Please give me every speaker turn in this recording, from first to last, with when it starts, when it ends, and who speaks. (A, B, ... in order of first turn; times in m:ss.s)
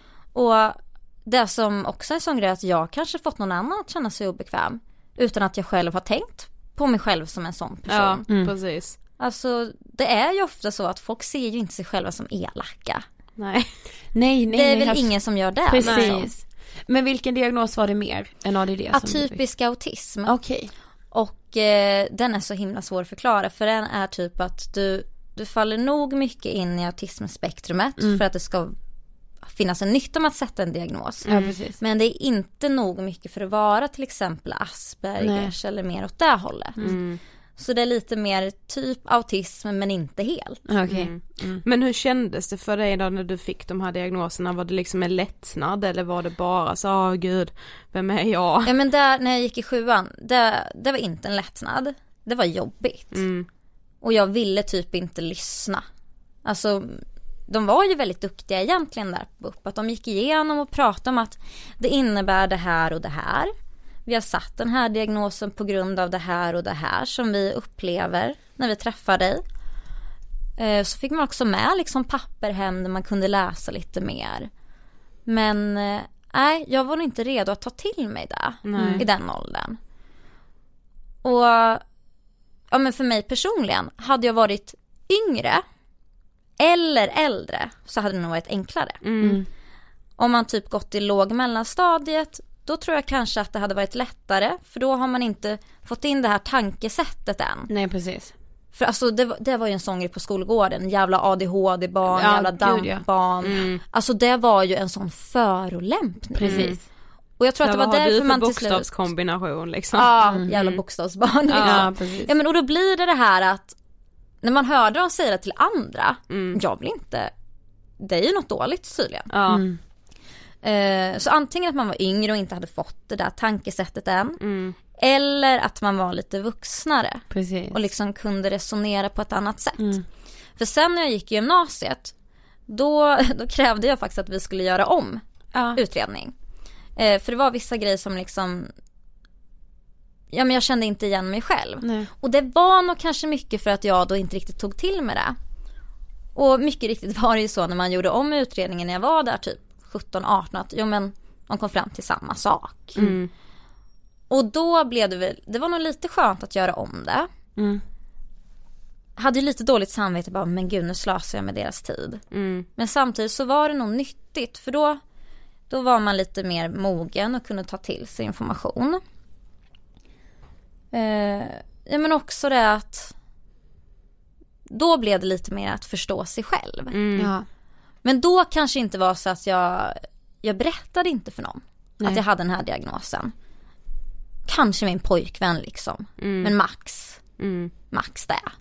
0:00.4-0:08.2 A
0:07.9-0:09.0 B
0:08.3-0:08.5 C
0:09.2-0:13.0 A
0:13.4-0:13.8 B
0:14.1-0:15.1 C
0:14.5-0:16.3 A
0:15.7-0:19.4 C
0:15.8-0:16.2 B
0:18.9-0:20.4 A
0:20.3-0:20.7 C
0:21.1-0:28.8 A
0:29.4-0:31.3 A
0:31.3-0:31.6 B
0:31.3-0:31.8 C
0:31.8-0:36.8 A
0:35.2-0:35.5 C
0:36.8-0:37.2 B
0:37.6-0:40.6 A
0:40.7-0:41.6 C
0:40.9-0:48.7 B
0:48.6-0:53.2 A
0:53.1-0:53.5 B
0:54.0-0:55.8 A
0:56.4-1:03.5 A
1:04.1-1:09.4 A
1:10.6-1:14.5 A
1:15.3-1:19.8 A
1:18.6-1:19.0 B
1:18.8-1:19.0 C
1:21.2-1:21.8 A
1:22.7-1:25.6 A
1:26.6-1:29.0 A
1:29.0-1:29.4 B
1:29.2-1:29.5 C
1:30.2-1:37.7 A
1:37.7-1:38.3 C
1:38.8-1:46.7 A
1:42.1-1:43.0 C
1:43.4-1:43.8 B
1:46.4-1:46.8 C
1:46.4-1:46.8 B
1:47.4-1:48.9 A
1:47.6-1:50.8 B
1:50.0-1:53.8 A
1:51.5-1:51.9 B
1:51.6-1:52.3 C
1:54.4-1:57.3 A
1:56.3-1:56.6 B
1:58.0-1:59.3 A
1:59.3-1:59.6 B
1:59.5-1:59.8 C
2:00.6-2:04.4 A
2:04.4-2:04.8 B
2:05.0-2:09.8 A
2:07.3-2:07.8 C
2:09.8-2:10.0 C
2:10.6-2:12.1 A
2:12.7-2:15.2 A
2:15.5-2:15.8 C
2:15.7-2:16.3 A
2:17.0-2:18.7 A
2:20.3-2:25.4 A
2:21.8-2:22.1 C
2:26.4-2:33.0 A
2:33.0-2:33.3 B
2:34.3-2:37.3 A
2:37.6-2:37.8 C
2:39.2-2:42.2 A
2:42.3-2:42.7 B
2:42.8-2:45.0 A
2:45.7-2:49.0 A
2:50.9-2:53.1 A
2:54.7-2:57.0 A
2:56.9-2:57.3 B
2:57.2-2:57.5 C
2:58.0-3:03.3 A
3:04.5-3:07.2 A
3:06.2-3:06.5 B
3:07.4-3:07.7 B
3:07.9-3:08.5 A